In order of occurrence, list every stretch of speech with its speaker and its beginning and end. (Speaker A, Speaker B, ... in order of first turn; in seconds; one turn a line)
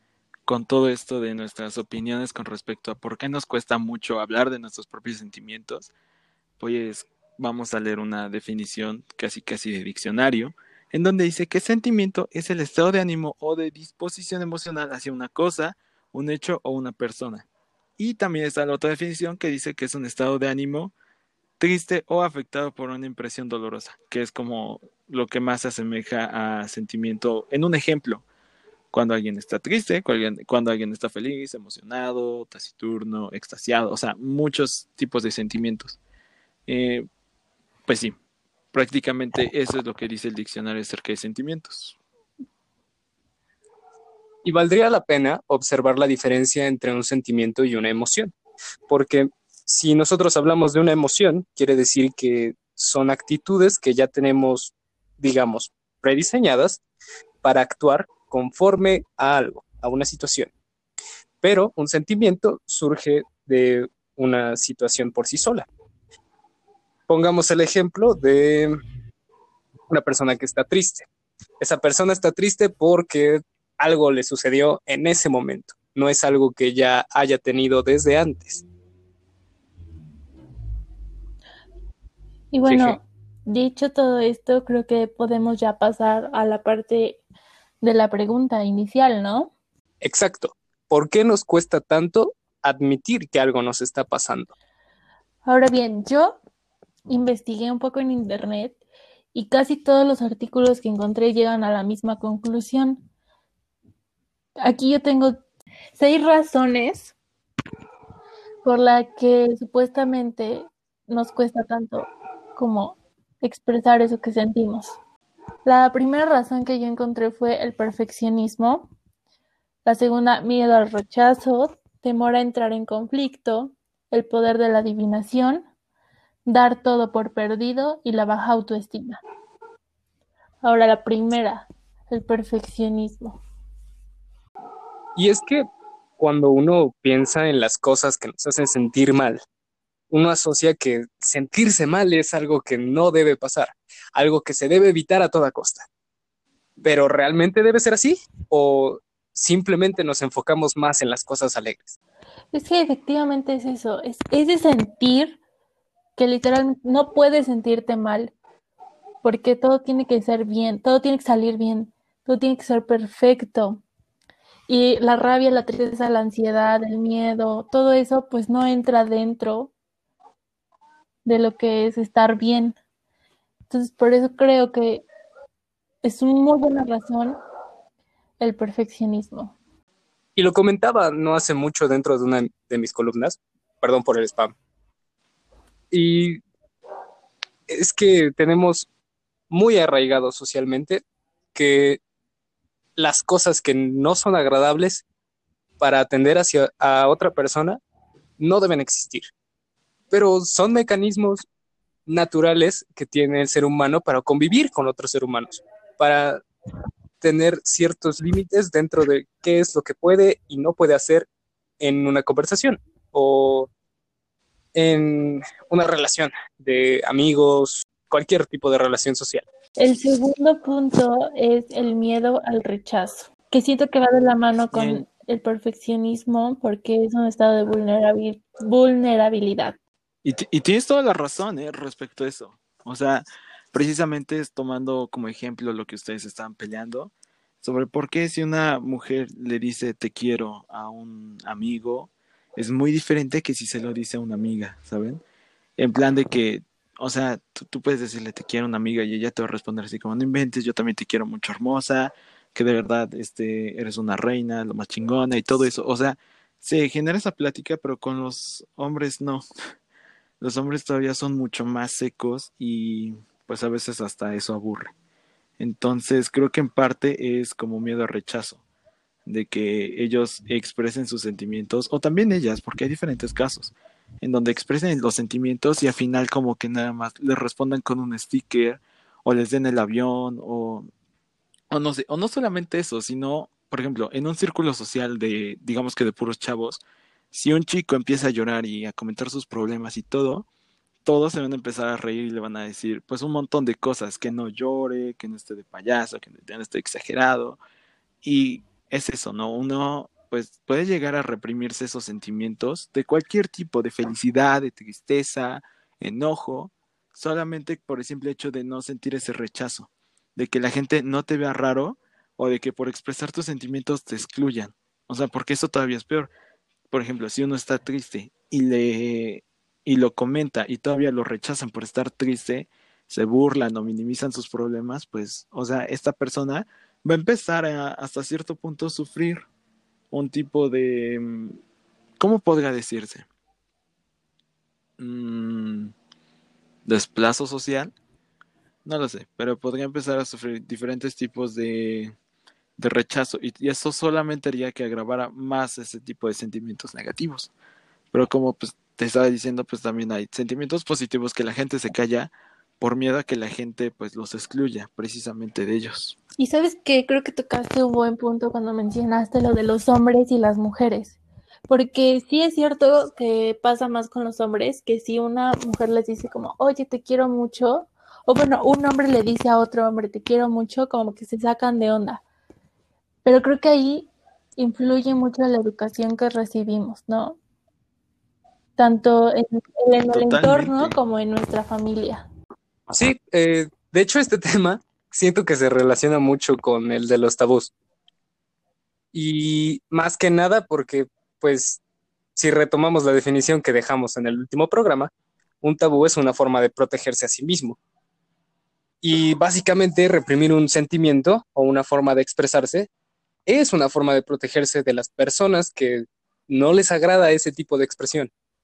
Speaker A: 0.5-5.9
Speaker A: 6.6-17.5
Speaker A: 18.0-20.9
Speaker A: 21.6-28.2
Speaker A: 28.9-36.0
Speaker A: 36.7-37.1
Speaker A: 37.9-38.1
Speaker A: 38.7-42.0
Speaker B: 44.4-48.3
Speaker B: 48.9-56.8
Speaker B: 57.4-60.5
Speaker B: 61.4-65.7
Speaker B: 67.1-68.8
Speaker B: 69.9-71.1
Speaker B: 71.6-78.6
Speaker C: 82.5-87.2
Speaker B: 82.7-83.0
Speaker C: 87.8-89.5
Speaker B: 90.0-94.5
Speaker C: 95.5-96.4
Speaker C: 97.1-98.8
Speaker C: 99.3-103.0
Speaker C: 104.6-105.4
Speaker C: 106.0-107.2
Speaker C: 108.6-115.0
Speaker C: 115.7-118.9
Speaker C: 119.8-125.7
Speaker C: 126.5-129.2
Speaker C: 130.6-133.4
Speaker B: 135.2-135.7
Speaker B: 136.2-139.4
Speaker B: 140.1-145.9
Speaker B: 146.8-152.0
Speaker C: 152.5-155.4
Speaker C: 156.2-158.3
Speaker C: 159.2-163.8
Speaker C: 164.7-169.7
Speaker C: 171.2-172.8
Speaker C: 173.7-175.0
Speaker C: 176.0-177.4
Speaker C: 178.4-179.6
Speaker B: 180.3-184.5
Speaker B: 185.9-186.4
Speaker B: 187.7-188.9
Speaker B: 189.5-191.0
Speaker B: 191.5-192.0
Speaker B: 193.0-195.0
Speaker B: 195.8-197.8
Speaker B: 198.4-199.3
Speaker B: 200.1-201.5
Speaker B: 202.1-206.4
Speaker B: 207.2-211.3
Speaker B: 211.8-213.7
Speaker B: 214.7-219.4
Speaker C: 219.8-229.8
Speaker A: 224.7-225.0
Speaker A: 230.2-245.2
Speaker A: 245.8-259.4
Speaker A: 260.4-264.9
Speaker A: 265.6-268.6
Speaker A: 269.2-280.9
Speaker A: 281.7-290.5
Speaker A: 291.0-297.6
Speaker A: 298.2-316.3
Speaker A: 316.9-329.5
Speaker A: 330.1-331.6
Speaker A: 332.2-333.2
Speaker A: 335.0-335.9
Speaker A: 336.9-337.9
Speaker A: 338.8-342.1
Speaker A: 342.8-347.5
Speaker A: 348.1-356.2
Speaker C: 356.4-372.2
Speaker C: 373.2-377.4
Speaker C: 378.8-382.2
Speaker A: 380.1-380.9
Speaker B: 382.9-387.7
Speaker B: 389.1-391.8
Speaker B: 392.4-395.1
Speaker B: 395.6-397.8
Speaker B: 399.0-402.9
Speaker B: 403.5-408.3